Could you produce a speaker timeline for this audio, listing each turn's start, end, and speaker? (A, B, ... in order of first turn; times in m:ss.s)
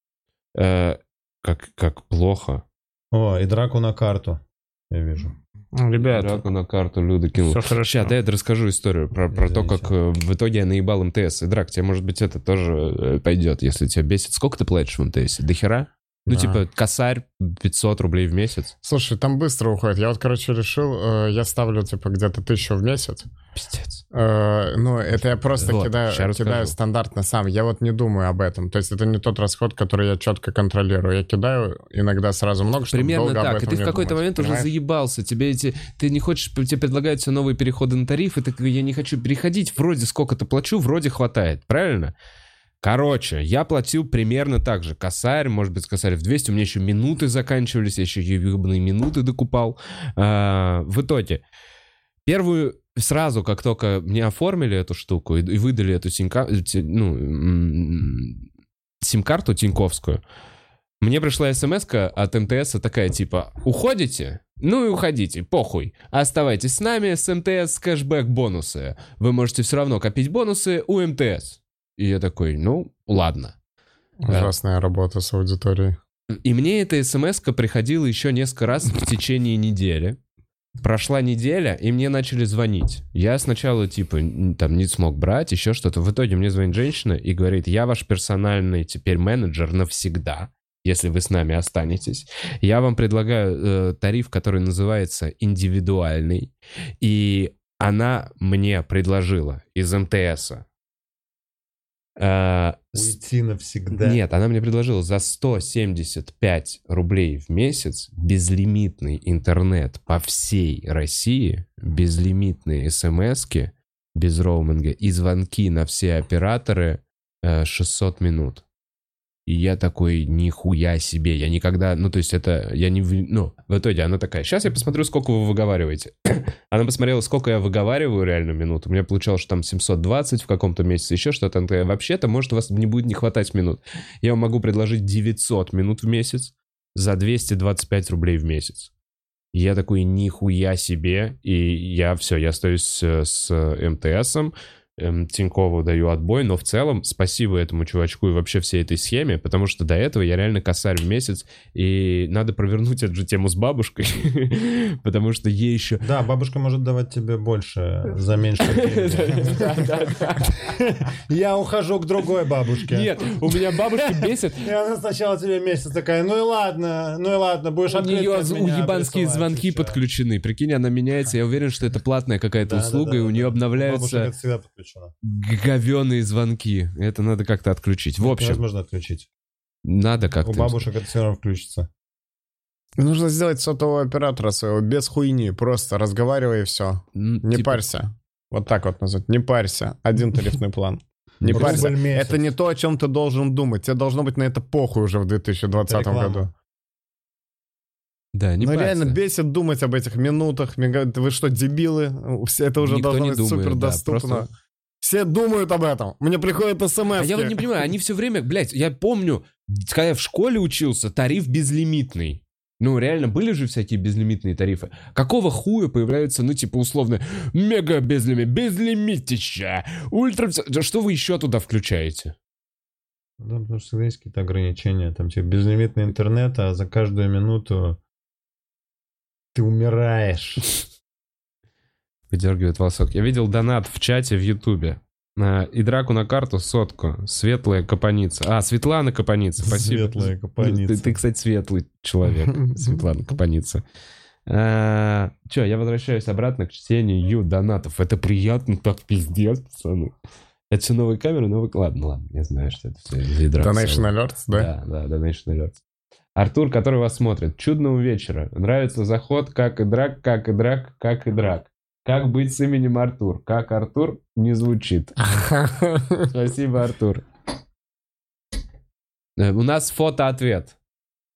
0:00.5-0:02.6 A
0:03.1-0:05.3 B
0:05.7-0:06.4 C
0:06.0-0:18.7 A
0:07.4-0:08.1 C
0:09.3-0:09.9 B
0:16.3-0:16.6 C
0:18.8-0:23.3 C
0:23.5-0:24.0 A
0:24.1-0:34.7 C
0:25.6-0:26.8 A
0:32.9-0:42.1 A
0:42.8-0:51.4 A
0:52.2-0:58.4 A
0:59.0-1:00.2 A
1:01.0-1:13.5 A
1:14.2-1:16.0 C
1:14.3-1:14.5 A
1:16.4-1:20.2 A
1:20.8-1:40.6 A
1:42.2-1:43.2 A
1:42.9-1:44.2 B
1:43.9-1:58.6 A
1:59.5-2:18.9 A
2:19.5-2:36.0 A
2:36.0-2:50.0 B
2:38.6-2:40.6 A
2:42.9-2:44.7 A
2:47.9-2:54.3 A
2:52.6-2:55.1 B
2:55.2-2:58.6 A
2:58.2-2:59.3 B
2:59.8-3:00.9 A
3:00.4-3:01.9 B
3:03.0-3:16.5 C
3:07.1-3:07.8 A
3:11.4-3:12.4 B
3:11.5-3:11.8 A
3:15.8-3:16.5 B
3:18.3-3:19.2 A
3:18.6-3:24.5 C
3:22.8-3:24.5 A
3:25.0-3:27.6 C
3:27.2-3:42.3 A
3:43.4-3:48.0 B
3:49.5-3:50.6 B
3:52.3-4:03.8 A
3:59.6-4:01.2 B
4:04.4-4:10.1 A
4:10.7-4:15.8 A
4:13.6-4:14.7 C
4:16.3-4:25.2 A
4:25.2-4:26.3 C
4:26.3-4:27.2 A
4:29.4-4:30.7 A